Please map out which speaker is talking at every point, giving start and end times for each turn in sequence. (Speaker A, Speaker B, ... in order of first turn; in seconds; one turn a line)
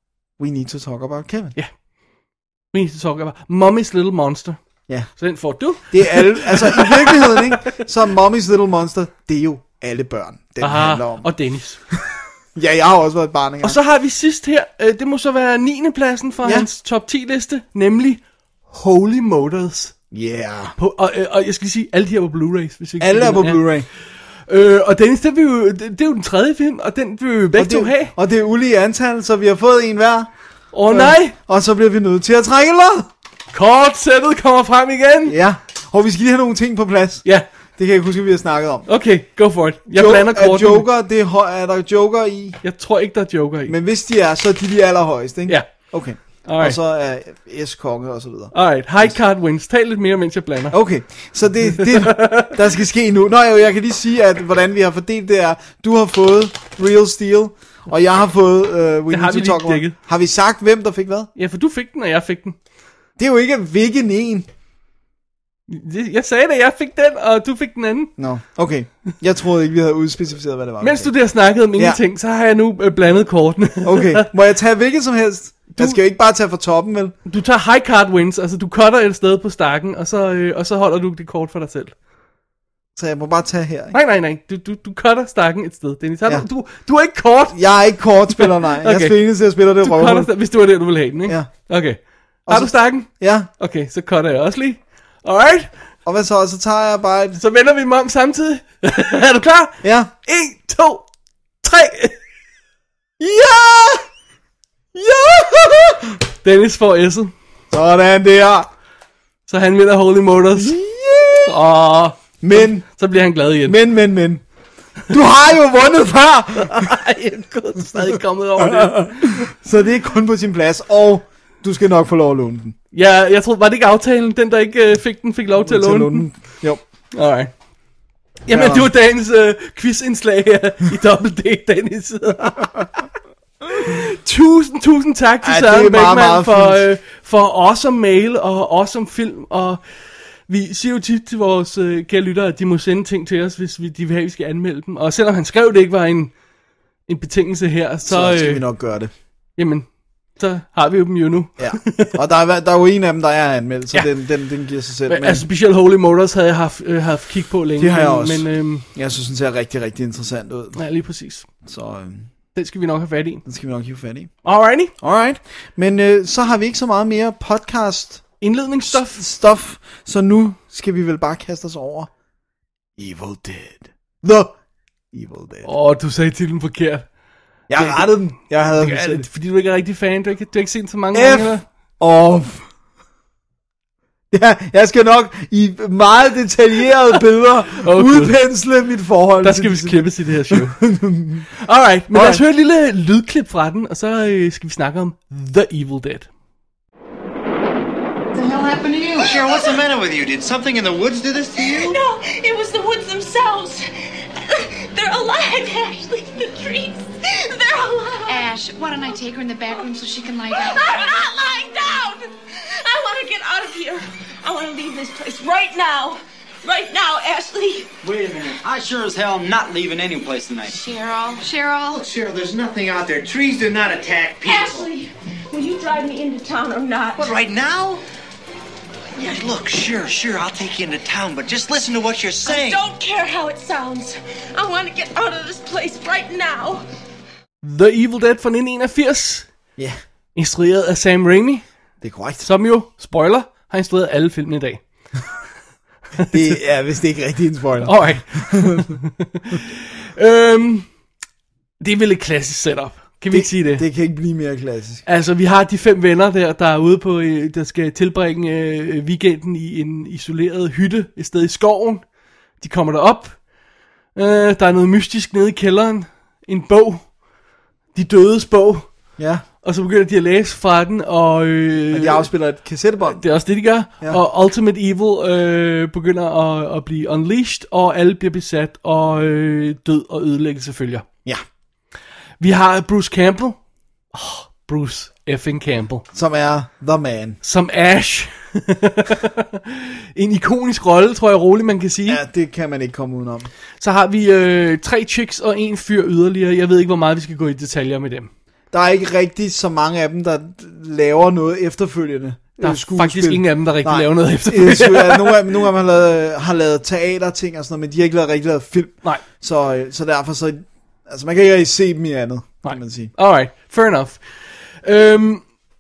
Speaker A: 0.4-1.6
Speaker B: 2.7-4.6
Speaker B: 5.2-7.8
Speaker A: 5.9-11.3
Speaker B: 10.6-11.8
Speaker A: 11.9-13.8
Speaker B: 13.6-19.9
Speaker A: 20.1-20.8
Speaker B: 20.8-23.7
Speaker A: 23.0-23.9
Speaker B: 24.5-28.1
Speaker A: 27.6-30.3
Speaker B: 30.7-31.4
Speaker A: 30.9-33.1
Speaker B: 33.5-35.4
Speaker A: 35.2-37.2
Speaker A: 37.8-38.9
Speaker B: 38.9-40.9
Speaker A: 39.9-42.6
Speaker B: 42.6-43.8
Speaker A: 43.7-49.2
Speaker B: 46.4-46.8
Speaker B: 48.5-50.8
Speaker A: 50.7-61.3
Speaker B: 51.7-52.6
Speaker B: 59.1-60.0
Speaker B: 61.4-62.6
Speaker A: 63.2-64.5
Speaker B: 65.7-68.1
Speaker A: 68.2-71.1
Speaker B: 70.8-74.3
Speaker A: 73.8-77.2
Speaker B: 75.7-76.0
Speaker B: 77.2-81.9
Speaker A: 83.0-84.0
Speaker B: 83.9-87.6
Speaker A: 87.5-90.3
Speaker B: 88.4-89.2
Speaker B: 89.8-95.7
Speaker A: 92.5-93.5
Speaker A: 96.0-97.4
Speaker B: 97.4-101.1
Speaker A: 99.8-100.1
Speaker B: 101.6-102.2
Speaker A: 103.2-104.0
Speaker A: 104.9-106.2
Speaker B: 106.4-107.3
Speaker A: 107.7-108.7
Speaker B: 109.5-110.8
Speaker A: 110.5-111.6
Speaker B: 111.5-113.8
Speaker A: 112.4-112.8
Speaker A: 113.7-114.4
Speaker A: 115.1-116.9
Speaker B: 116.6-119.4
Speaker A: 117.9-122.8
Speaker B: 122.9-126.3
Speaker A: 125.6-126.8
Speaker B: 127.1-127.5
Speaker B: 128.5-133.1
Speaker A: 128.5-128.9
Speaker B: 133.7-139.8
Speaker A: 135.4-136.8
Speaker B: 140.5-146.3
Speaker B: 147.1-148.7
Speaker A: 148.1-149.1
Speaker B: 149.6-152.2
Speaker A: 151.6-155.4
Speaker B: 155.1-158.9
Speaker A: 157.8-160.8
Speaker B: 160.8-161.5
Speaker A: 161.6-162.3
Speaker B: 162.6-163.4
Speaker A: 163.5-164.3
Speaker B: 164.4-164.9
Speaker A: 165.0-168.2
Speaker B: 168.4-169.2
Speaker A: 168.9-172.1
Speaker A: 173.0-174.6
Speaker A: 175.1-175.7
Speaker B: 175.7-177.1
Speaker A: 177.7-179.3
Speaker B: 177.7-181.6
Speaker A: 181.1-182.7
Speaker A: 184.3-191.5
Speaker B: 187.7-188.4
Speaker B: 189.4-190.8
Speaker B: 191.6-196.3
Speaker A: 192.1-192.4
Speaker C: 198.3-202.0
Speaker D: 199.2-199.8
Speaker D: 201.6-203.8
Speaker D: 204.4-208.5
Speaker E: 208.3-210.9
Speaker D: 210.6-217.9
Speaker C: 218.0-220.8
Speaker E: 220.7-222.0
Speaker C: 221.9-224.9
Speaker D: 224.4-227.3
Speaker C: 227.2-228.0
Speaker C: 229.2-232.8
Speaker D: 232.4-236.8
Speaker B: 237.6-239.5
Speaker B: 240.3-241.7
Speaker A: 242.0-242.5
Speaker B: 242.4-244.8
Speaker A: 246.3-248.9
Speaker B: 247.8-250.9
Speaker B: 251.8-253.9
Speaker A: 253.3-255.0
Speaker B: 255.1-262.1
Speaker B: 262.6-263.4
Speaker B: 264.1-267.1
Speaker B: 267.9-268.9
Speaker A: 269.2-269.4
Speaker B: 269.6-272.3
Speaker A: 271.9-273.2
Speaker B: 273.0-281.1
Speaker B: 282.4-283.6
Speaker B: 284.1-286.1
Speaker A: 286.1-287.4
Speaker B: 287.4-292.2
Speaker A: 292.1-293.5
Speaker B: 293.8-298.3
Speaker A: 298.7-313.1
Speaker B: 302.6-305.6
Speaker B: 312.6-314.2
Speaker B: 314.8-315.4